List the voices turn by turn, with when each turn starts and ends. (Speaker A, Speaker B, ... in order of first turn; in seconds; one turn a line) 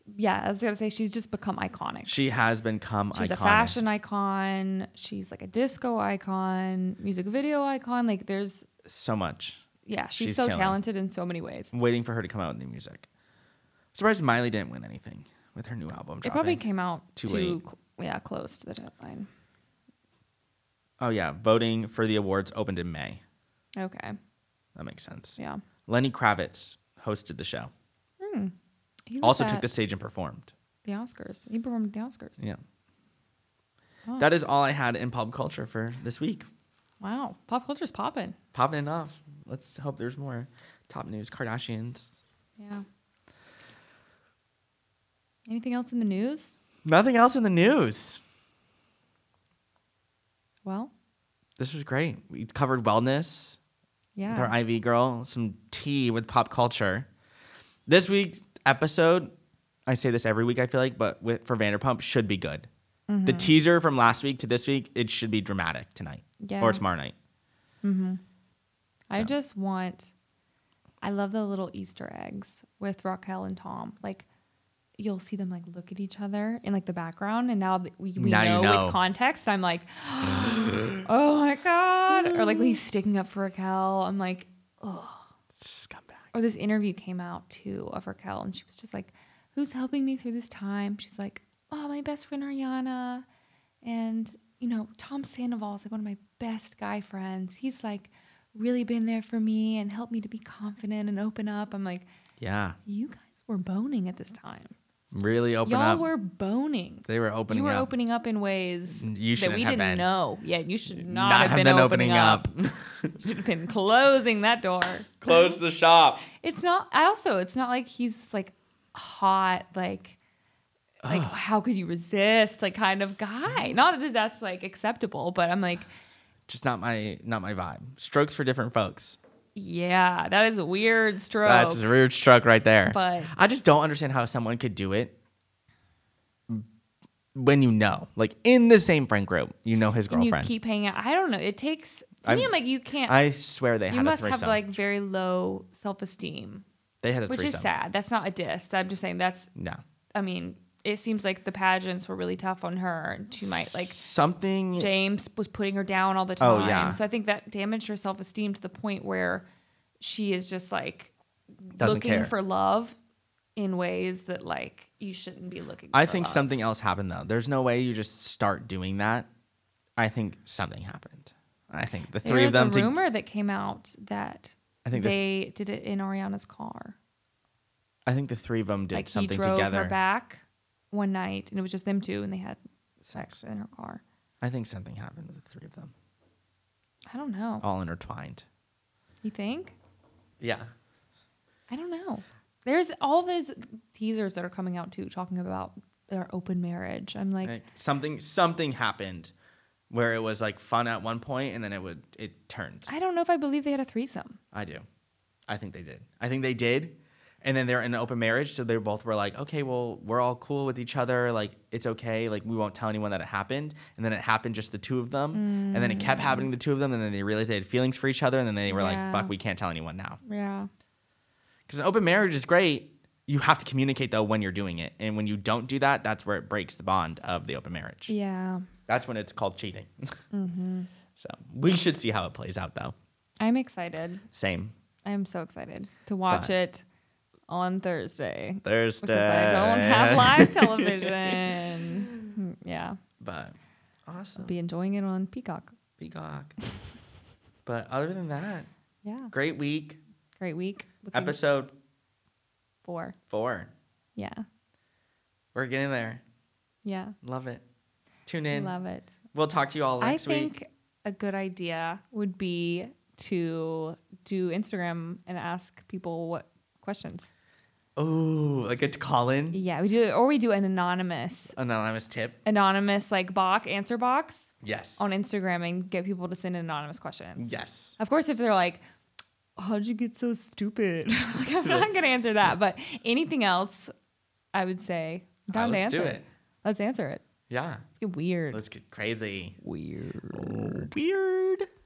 Speaker A: 0.1-2.2
Speaker B: 2.0-3.8
Speaker A: 3.1-8.7
Speaker B: 8.8-9.6
Speaker A: 9.8-11.7
Speaker B: 10.2-10.8
Speaker B: 11.7-13.1
Speaker B: 13.9-16.6
Speaker A: 16.2-19.3
Speaker B: 17.1-17.6
Speaker B: 21.0-23.2
Speaker A: 23.8-24.2
Speaker B: 24.8-27.7
Speaker A: 28.2-28.5
Speaker A: 29.1-29.7
Speaker B: 29.2-30.5
Speaker A: 30.8-32.4
Speaker B: 34.2-36.5
Speaker A: 37.0-38.4
Speaker B: 38.5-42.1
Speaker A: 42.6-42.8
Speaker A: 45.5-46.5
Speaker B: 46.8-48.2
Speaker A: 50.6-50.9
Speaker B: 51.6-53.6
Speaker A: 54.1-54.5
Speaker B: 54.3-57.1
Speaker B: 57.9-59.3
Speaker B: 59.9-62.7
Speaker A: 63.1-63.5
Speaker B: 63.2-67.1
Speaker A: 66.4-66.8
Speaker A: 67.8-68.2
Speaker A: 69.1-70.1
Speaker A: 71.0-74.2
Speaker A: 75.0-85.3
Speaker B: 78.2-79.0
Speaker B: 80.2-81.1
Speaker B: 82.2-82.7
Speaker B: 85.5-86.3
Speaker A: 86.3-93.2
Speaker A: 93.8-102.0
Speaker B: 102.4-102.8
Speaker A: 102.8-104.7
Speaker B: 105.1-106.1
Speaker A: 105.6-112.5
Speaker B: 107.1-107.9
Speaker B: 109.0-110.0
Speaker B: 110.9-113.3
Speaker A: 113.2-115.2
Speaker B: 115.2-116.2
Speaker A: 116.4-120.2
Speaker B: 121.0-121.3
Speaker A: 121.0-125.9
Speaker B: 126.5-129.2
Speaker A: 129.5-131.8
Speaker B: 131.4-135.2
Speaker A: 132.9-133.3
Speaker B: 137.3-140.5
Speaker A: 140.1-143.2
Speaker B: 142.2-142.5
Speaker B: 143.1-144.6
Speaker A: 143.9-146.6
Speaker B: 147.0-147.7
Speaker A: 147.3-149.5
Speaker B: 149.6-149.8
Speaker A: 150.1-154.0
Speaker B: 153.4-154.9
Speaker A: 154.8-159.4
Speaker B: 156.4-157.0
Speaker A: 160.0-163.0
Speaker B: 161.8-162.3
Speaker A: 163.6-166.6
Speaker B: 165.9-169.3
Speaker B: 170.0-173.0
Speaker A: 172.2-177.0
Speaker B: 174.8-175.2
Speaker B: 178.1-179.9
Speaker A: 178.9-182.6
Speaker B: 183.0-183.4
Speaker A: 183.1-184.0
Speaker B: 184.4-185.9
Speaker A: 187.1-187.6
Speaker B: 187.6-188.4
Speaker A: 189.2-189.7
Speaker B: 190.4-190.7
Speaker A: 191.7-197.6
Speaker B: 197.4-199.3
Speaker B: 199.9-202.9
Speaker A: 202.9-204.4
Speaker B: 204.5-204.8
Speaker B: 205.5-220.2
Speaker A: 215.3-216.5
Speaker A: 218.7-219.3
Speaker A: 220.2-220.7
Speaker B: 221.7-228.1
Speaker A: 228.1-228.7
Speaker B: 228.9-230.2
Speaker A: 230.3-230.9
Speaker B: 231.2-232.9
Speaker A: 233.4-234.2
Speaker B: 234.3-234.7
Speaker A: 235.0-236.8
Speaker A: 237.5-243.0
Speaker B: 238.6-241.6
Speaker B: 243.2-244.5
Speaker A: 244.4-245.7
Speaker B: 246.0-246.6
Speaker B: 247.7-248.7
Speaker A: 249.0-249.3
Speaker B: 249.3-250.0
Speaker A: 250.4-251.4
Speaker B: 251.1-251.7
Speaker A: 252.8-253.2
Speaker B: 253.3-253.7
Speaker A: 254.2-254.4
Speaker B: 255.5-256.2
Speaker A: 256.8-257.1
Speaker B: 257.2-257.6
Speaker B: 258.2-258.7
Speaker A: 258.5-259.1
Speaker B: 259.3-260.5
Speaker A: 260.0-267.3
Speaker B: 267.9-269.6
Speaker A: 269.5-271.5
Speaker B: 271.5-272.4
Speaker A: 272.4-278.8
Speaker B: 274.6-275.1
Speaker B: 277.4-277.9
Speaker A: 279.6-283.9
Speaker B: 281.6-281.9
Speaker A: 284.5-287.2
Speaker B: 285.5-286.3
Speaker B: 287.5-287.8
Speaker A: 288.0-288.6
Speaker B: 288.5-289.6
Speaker A: 289.6-290.9
Speaker B: 290.3-291.7